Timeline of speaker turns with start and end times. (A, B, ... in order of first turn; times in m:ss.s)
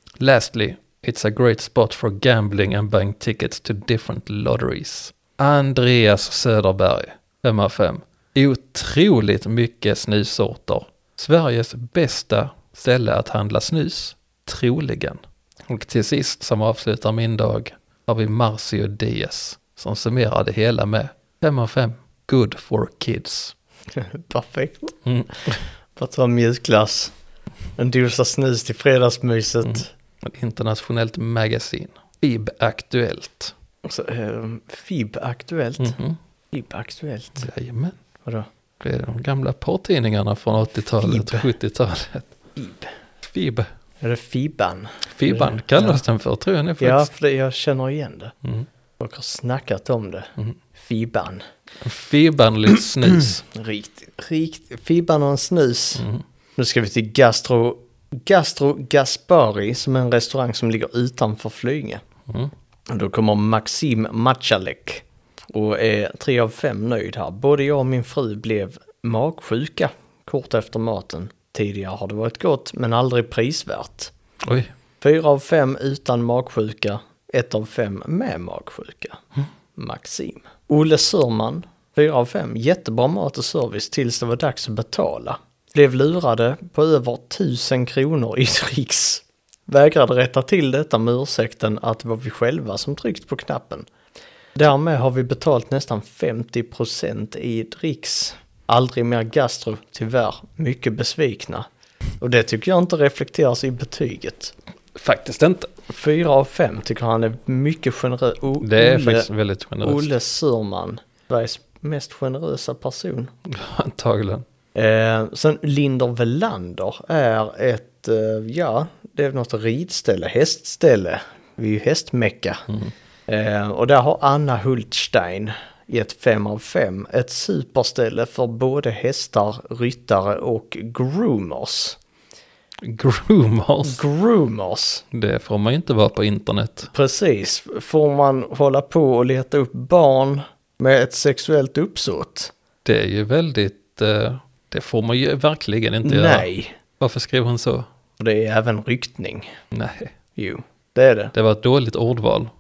0:00.2-0:23.6 A
0:23.9-0:25.0 B
0:25.0-0:25.6 A
0:25.5-0:27.1 B
0:27.8-0:29.9 B
0:29.6-0:33.5 A
0:33.8-0:36.0 B
0:35.8-0:36.2 A
0:36.5-0:37.5 B
0:37.4-0:38.0 A
0:38.8-0:42.4 A
0:41.0-0:41.5 B
0:42.6-0:42.9 B
0:43.2-0:43.7 A
0:44.0-0:46.0 B
0:45.1-0:47.1 A
0:46.8-0:48.3 B
0:49.0-0:51.4 B
0:51.8-0:53.4 A
0:53.2-0:56.0 B
0:56.0-0:56.2 A
0:56.6-1:02.0 B
1:02.9-1:14.1 B
1:14.4-1:14.7 A
1:15.0-1:19.2 B
1:19.8-1:33.9 B
1:34.6-1:41.7 B
1:42.2-1:44.5 B
1:45.0-1:45.7 A
1:45.9-1:49.3 B
1:48.6-1:50.1 A
1:49.8-1:53.3 B
1:53.5-1:54.4 A
1:54.8-2:02.6 B
2:03.3-2:12.0 B
2:12.8-2:14.0 A
2:13.8-2:15.0 B
2:15.1-2:16.9 A
2:16.9-2:22.5 B
2:22.8-2:27.9 A
2:26.0-2:26.8 B
2:28.2-2:29.6 B
2:29.7-2:30.2 A
2:30.4-2:31.3 B
2:31.3-2:32.5 A